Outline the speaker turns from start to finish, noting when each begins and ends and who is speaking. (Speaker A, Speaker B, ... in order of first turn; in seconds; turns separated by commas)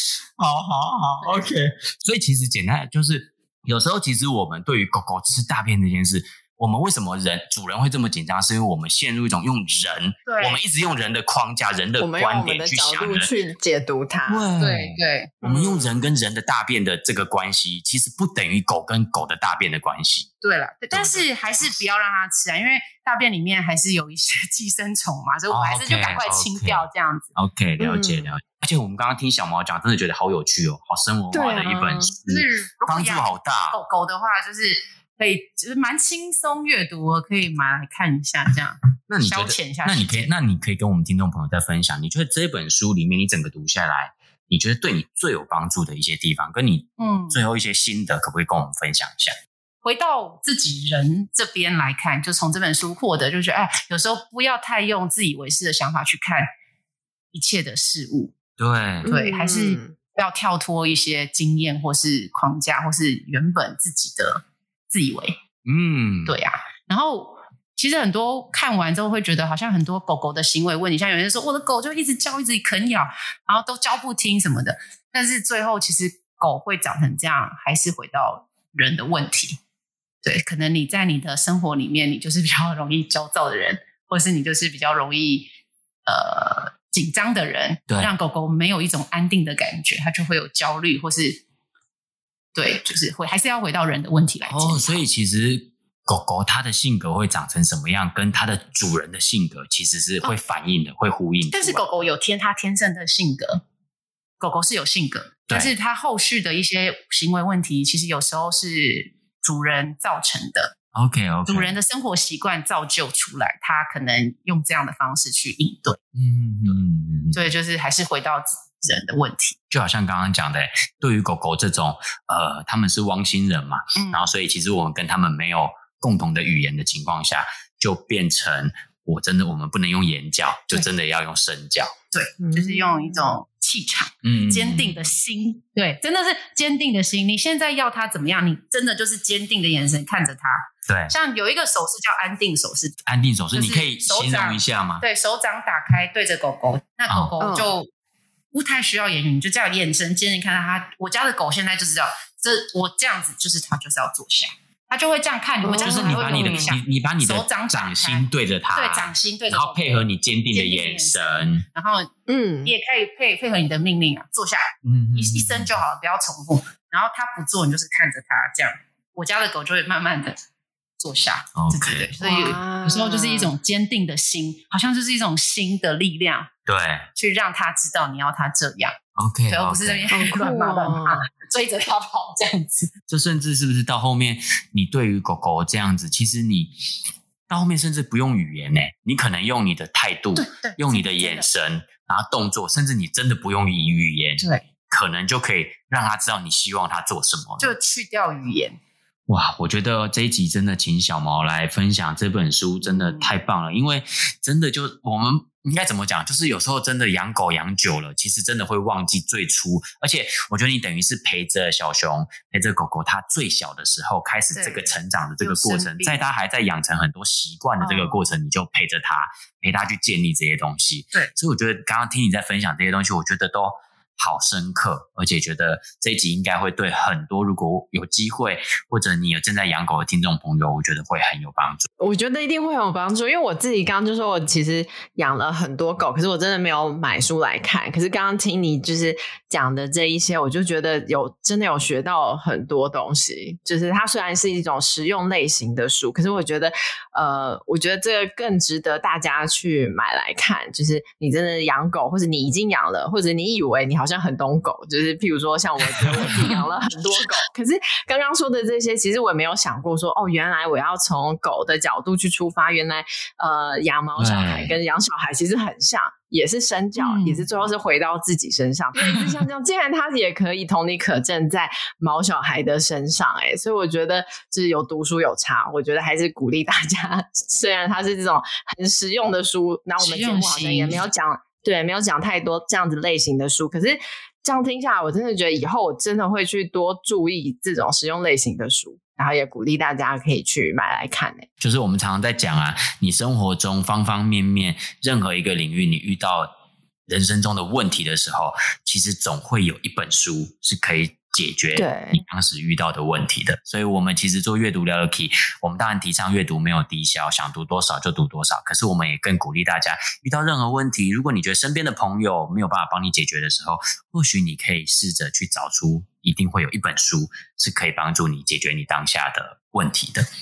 Speaker A: 0.4-13.3, Speaker B: 1.2-1.5, Speaker B: 10.2-10.6, Speaker C: 12.0-14.5, Speaker A: 14.3-20.3, Speaker B: 14.6-15.9, Speaker C: 15.4-15.8, Speaker B: 20.4-27.3, Speaker A: 20.9-21.7, Speaker A: 25.5-33.8, Speaker C: 27.8-28.3, Speaker C: 31.3-32.1, Speaker B: 32.3-40.3, Speaker A: 39.1-49.3, Speaker B: 47.0-47.4, Speaker B: 49.8-56.5, Speaker B: 57.3-58.4, Speaker A: 58.6-59.1, Speaker C: 59.0-60.0, Speaker B: 59.0-65.4, Speaker A: 65.7-66.3, Speaker B: 66.3-79.6, Speaker B: 80.2-85.5, Speaker B: 86.1-91.4, Speaker B: 92.5-95.0, Speaker A: 94.5-102.1, Speaker B: 101.5-103.6, Speaker B: 104.4-110.7, Speaker A: 111.0-111.8, Speaker B: 111.5-116.0, Speaker A: 116.2-117.4, Speaker B: 117.3-119.6, Speaker A: 119.7-131.9, Speaker B: 124.0-124.3, Speaker B: 132.1-143.0, Speaker C: 132.4-133.3, Speaker A: 134.2-135.1, Speaker A: 140.9-141.2, Speaker A: 143.1-145.1, Speaker B: 143.5-147.9, Speaker C: 147.4-147.7, Speaker B: 148.5-162.1, Speaker C: 155.6-156.7, Speaker A: 155.7-161.6, Speaker C: 162.3-162.7, Speaker B: 162.7-170.4, Speaker A: 164.8-165.8, Speaker B: 171.0-176.5, Speaker A: 171.6-172.6, Speaker C: 172.2-173.5, Speaker A: 176.7-177.1, Speaker B: 177.2-179.0, Speaker A: 179.2-180.2, Speaker B: 179.5-182.9, Speaker C: 180.1-181.2, Speaker A: 183.1-186.7, Speaker A: 187.5-197.7, Speaker B: 190.4-191.5, Speaker B: 197.6-198.8, Speaker A: 199.3-231.9, Speaker B: 202.8-203.3, Speaker B: 214.5-216.2, Speaker B: 217.8-218.2, Speaker C: 232.0-291.5, Speaker A: 256.0-256.4, Speaker A: 264.2-264.8, Speaker B: 267.0-267.5, Speaker B: 280.0-281.0, Speaker A: 291.6-296.5, Speaker A: 297.1-320.3, Speaker C: 301.7-302.2